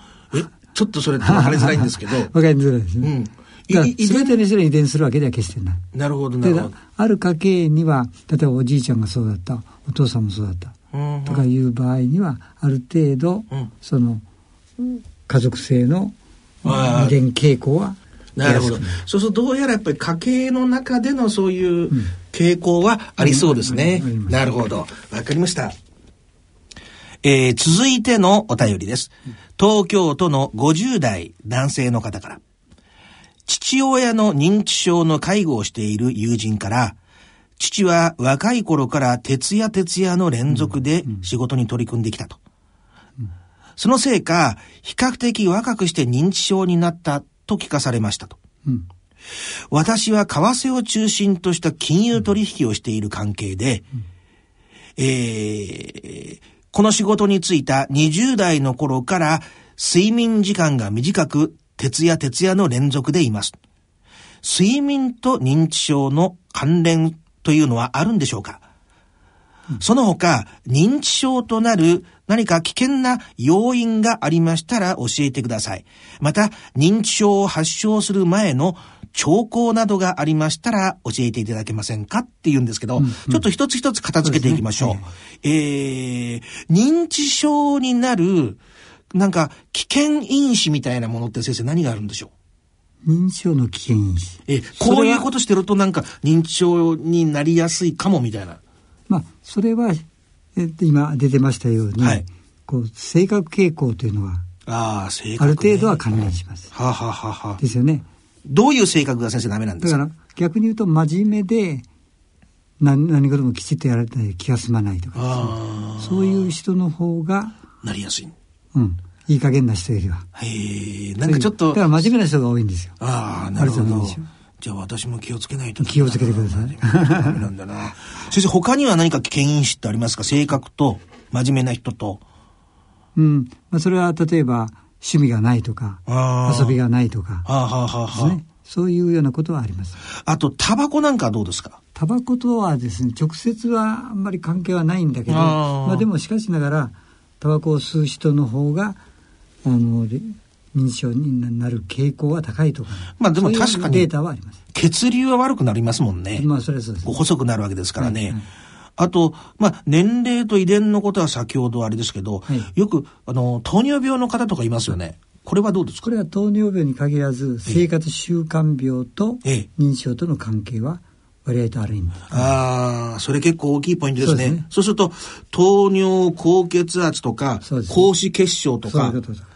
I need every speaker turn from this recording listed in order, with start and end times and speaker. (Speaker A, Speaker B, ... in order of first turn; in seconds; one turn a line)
Speaker A: 0.3-2.3
Speaker B: 1.2-3.1
Speaker A: 3.0-4.4
Speaker B: 3.7-5.8
Speaker A: 5.9-6.7
Speaker B: 6.4-10.7
Speaker A: 10.9-11.5
Speaker B: 11.2-14.2
Speaker B: 14.8-19.0
Speaker A: 16.6-17.1
Speaker A: 18.4-25.7
Speaker B: 23.2-24.4
Speaker A: 27.2-32.4
Speaker A: 33.5-37.0
Speaker A: 37.6-42.4
Speaker B: 40.5-41.2
Speaker A: 43.8-48.4
Speaker A: 49.7-53.8
Speaker A: 55.0-63.6
Speaker A: 64.4-68.6
Speaker A: 69.8-88.6
Speaker B: 83.0-83.4
Speaker B: 84.2-85.1
Speaker A: 89.1-92.3
Speaker B: 93.0-95.3
Speaker A: 94.5-98.6
Speaker B: 99.1-100.0
Speaker B: 100.5-104.4
Speaker A: 102.0-102.2
Speaker A: 104.7-106.0
Speaker B: 105.4-106.7
Speaker A: 106.7-107.6
Speaker B: 107.6-108.0
Speaker A: 108.4-110.0
Speaker B: 109.8-111.8
Speaker B: 112.8-117.5
Speaker A: 115.2-116.5
Speaker A: 117.8-118.3
Speaker B: 118.7-120.2
Speaker A: 120.3-122.1
Speaker B: 121.2-123.0
Speaker A: 123.0-132.2
Speaker B: 123.6-124.3
Speaker B: 125.8-127.4
Speaker B: 133.2-137.5
Speaker A: 136.1-136.8
Speaker A: 137.4-138.4
Speaker B: 138.1-140.0
Speaker A: 140.2-141.8
Speaker B: 141.9-149.0
Speaker A: 145.3-146.1
Speaker B: 149.6-154.6
Speaker A: 153.2-154.1
Speaker A: 154.7-156.5
Speaker B: 156.3-157.1
Speaker A: 157.0-158.4
Speaker B: 158.0-158.4
Speaker A: 159.0-166.1
Speaker B: 166.0-172.5
Speaker A: 172.3-179.2
Speaker B: 174.2-174.6
Speaker B: 177.6-178.1
Speaker B: 178.9-179.5